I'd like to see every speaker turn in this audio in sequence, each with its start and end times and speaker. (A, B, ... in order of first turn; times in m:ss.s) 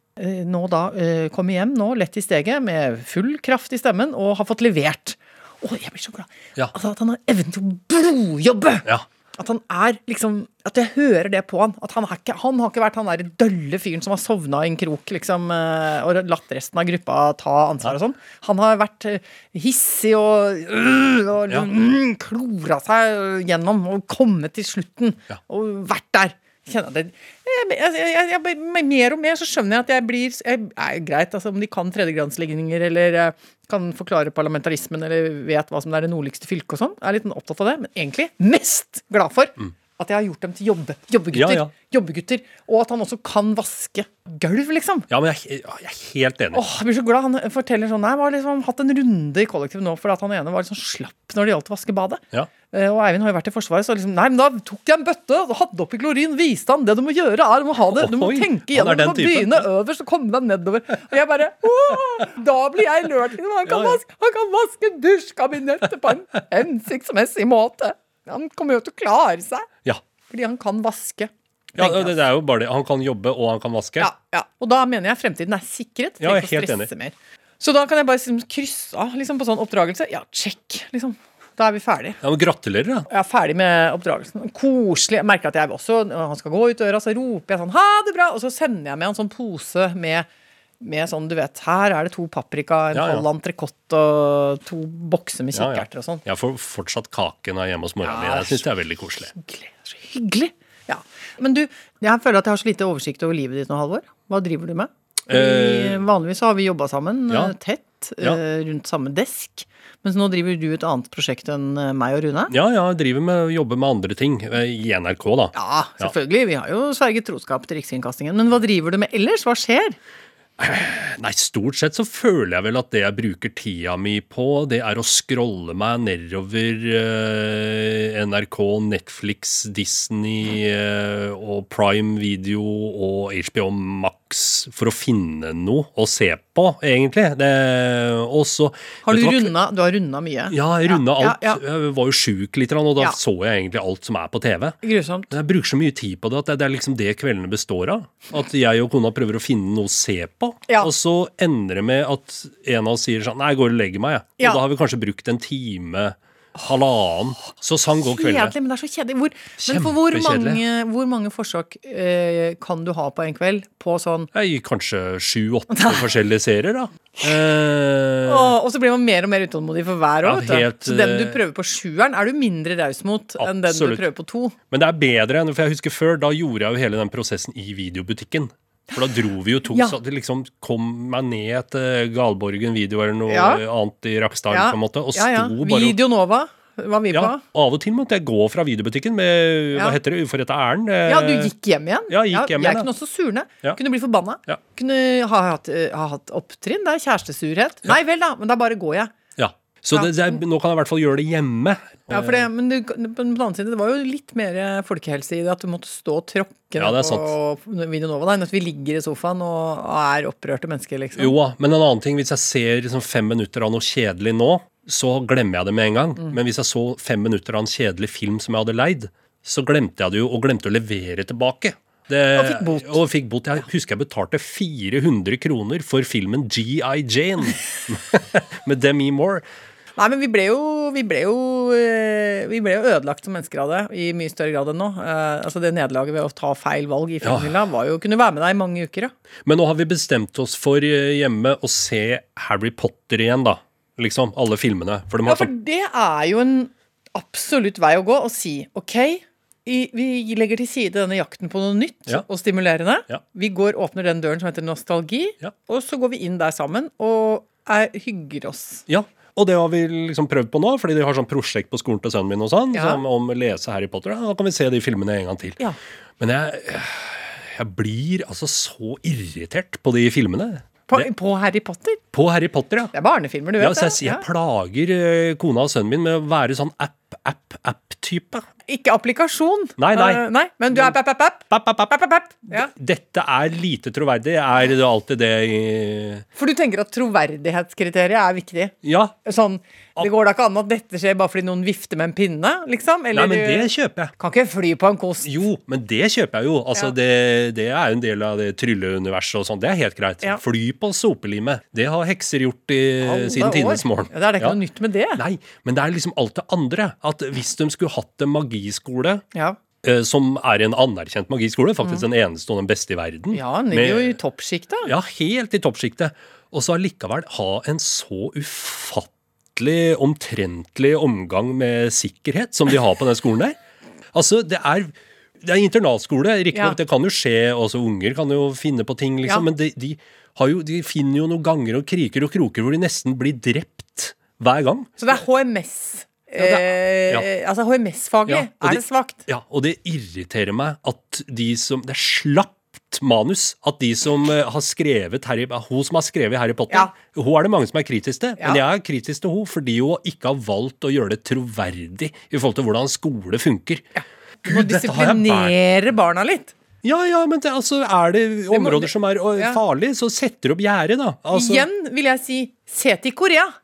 0:00.2-0:45.1 A
0:41.3-0:41.7 B
0:45.1-0:46.6 B
0:46.5-1:09.7 A
0:58.0-0:59.7 B
1:03.7-1:04.0 B
1:10.3-1:12.2 A
1:11.8-1:14.1 B
1:14.0-1:22.2 A
1:16.2-1:16.9 B
1:22.2-1:23.1 B
1:23.1-1:30.3 A
1:30.8-1:36.2 A
1:32.9-1:33.2 B
1:35.5-1:39.3 B
1:38.0-1:38.6 A
1:39.3-1:52.5 A
1:45.3-1:46.0 B
1:52.5-1:56.1 B
1:55.6-2:00.0 A
2:00.6-2:19.5 B
2:19.0-2:21.6 A
2:20.5-2:24.8 B
2:24.8-2:25.3 A
2:25.3-2:38.5 B
2:38.0-2:44.3 A
2:39.6-2:40.6 B
2:44.3-2:48.6 B
2:45.7-2:46.0 A
2:48.2-2:54.6 A
2:50.2-2:51.4 B
2:53.4-2:54.0 B
2:54.7-3:06.0 B
2:59.7-3:00.0 A
3:03.3-3:03.6 A
3:04.5-3:07.4 A
3:07.1-3:11.5 B
3:11.1-3:19.2 A
3:12.1-3:12.9 B
3:19.4-3:22.5 B
3:22.1-3:31.4 A
3:26.8-3:27.4 B
3:31.2-3:49.4 B
3:42.4-3:43.0 A
3:50.0-3:59.1 A
3:57.2-3:57.5 B
3:59.5-4:05.5 B
4:05.2-4:18.8 A
4:18.9-4:25.6 B
4:22.7-4:23.0 A
4:26.2-4:31.1 B
4:30.9-4:32.0 A
4:32.1-4:32.9 B
4:32.9-4:34.2 A
4:33.6-4:38.4 B
4:38.7-4:42.7 A
4:39.8-4:40.2 B
4:41.5-4:46.2 B
4:46.4-4:55.3 A
4:48.8-4:49.2 B
4:53.1-4:54.1 B
4:55.2-5:04.6 B
5:03.0-5:05.2 A
5:05.2-5:09.2 B
5:09.8-5:14.2 B
5:13.3-5:14.9 A
5:14.9-5:23.6 B
5:24.1-5:35.0 B
5:35.0-5:39.2 A
5:36.4-5:37.3 B
5:38.3-5:53.9 B
5:54.0-5:56.5 A
5:54.4-5:55.6 B
5:56.8-6:01.7 B
5:58.5-5:59.6 A
6:01.3-6:03.5 A